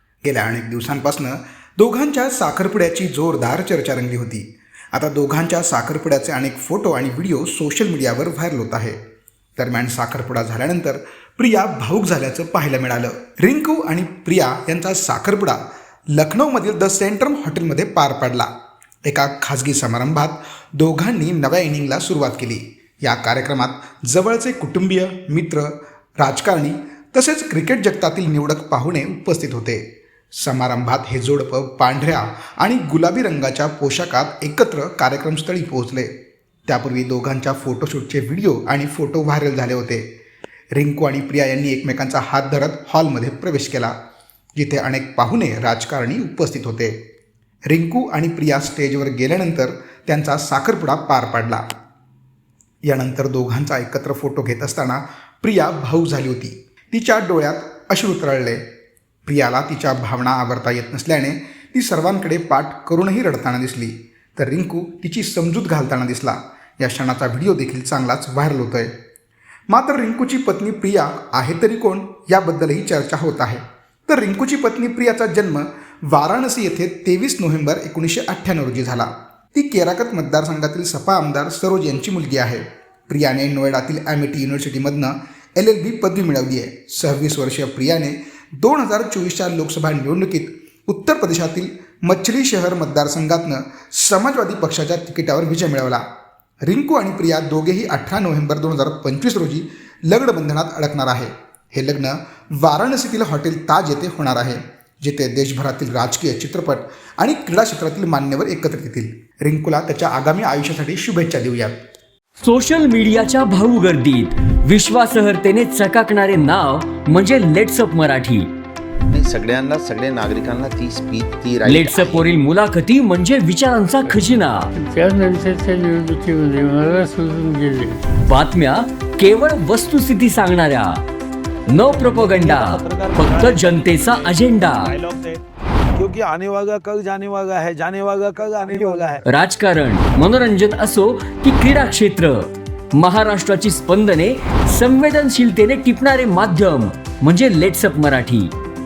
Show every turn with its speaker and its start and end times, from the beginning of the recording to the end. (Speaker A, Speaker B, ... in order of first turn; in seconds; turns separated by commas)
Speaker A: 0.2-9.0, Speaker A: 9.6-15.6, Speaker A: 16.1-18.5, Speaker A: 19.1-29.8, Speaker A: 30.4-36.1, Speaker A: 36.7-40.0, Speaker A: 40.8-43.9, Speaker A: 44.6-47.0, Speaker A: 47.7-51.6, Speaker A: 52.9-58.6, Speaker A: 59.3-68.9, Speaker A: 69.7-96.0, Speaker A: 96.7-111.8, Speaker B: 112.4-118.5, Speaker C: 119.1-122.3, Speaker B: 121.7-124.7, Speaker D: 124.9-128.0, Speaker B: 128.2-131.0, Speaker B: 131.7-135.0, Speaker E: 131.9-135.4, Speaker E: 136.0-139.2, Speaker B: 139.2-148.5